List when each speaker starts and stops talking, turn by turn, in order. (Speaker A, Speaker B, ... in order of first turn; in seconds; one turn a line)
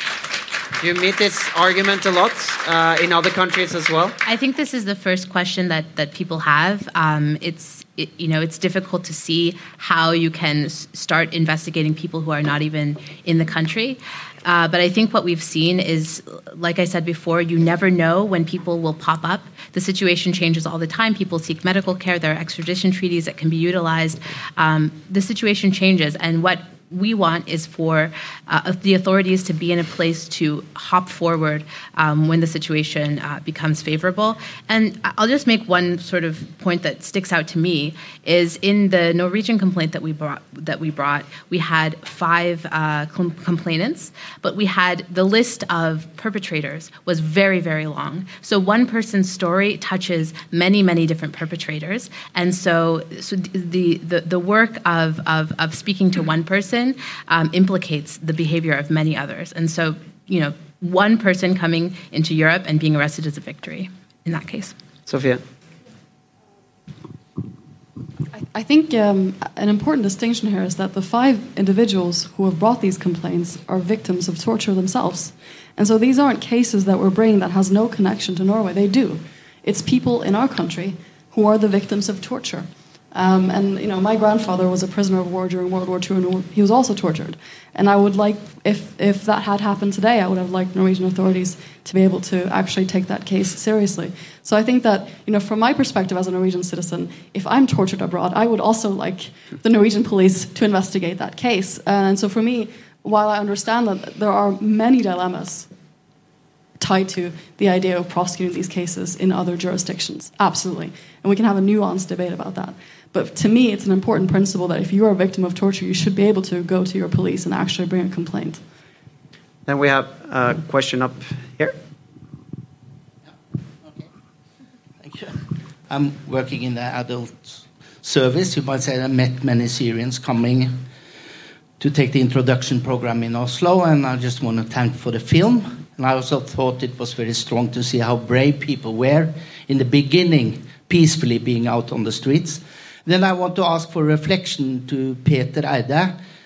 Speaker A: 0.8-4.2
Speaker B: 4.2-64.8
Speaker A: 65.1-65.4
Speaker C: 68.3-105.7
Speaker C: 106.8-118.6
Speaker A: 119.7-121.8
Speaker D: 123.3-124.1
Speaker D: 125.0-130.8
Speaker D: 131.8-146.2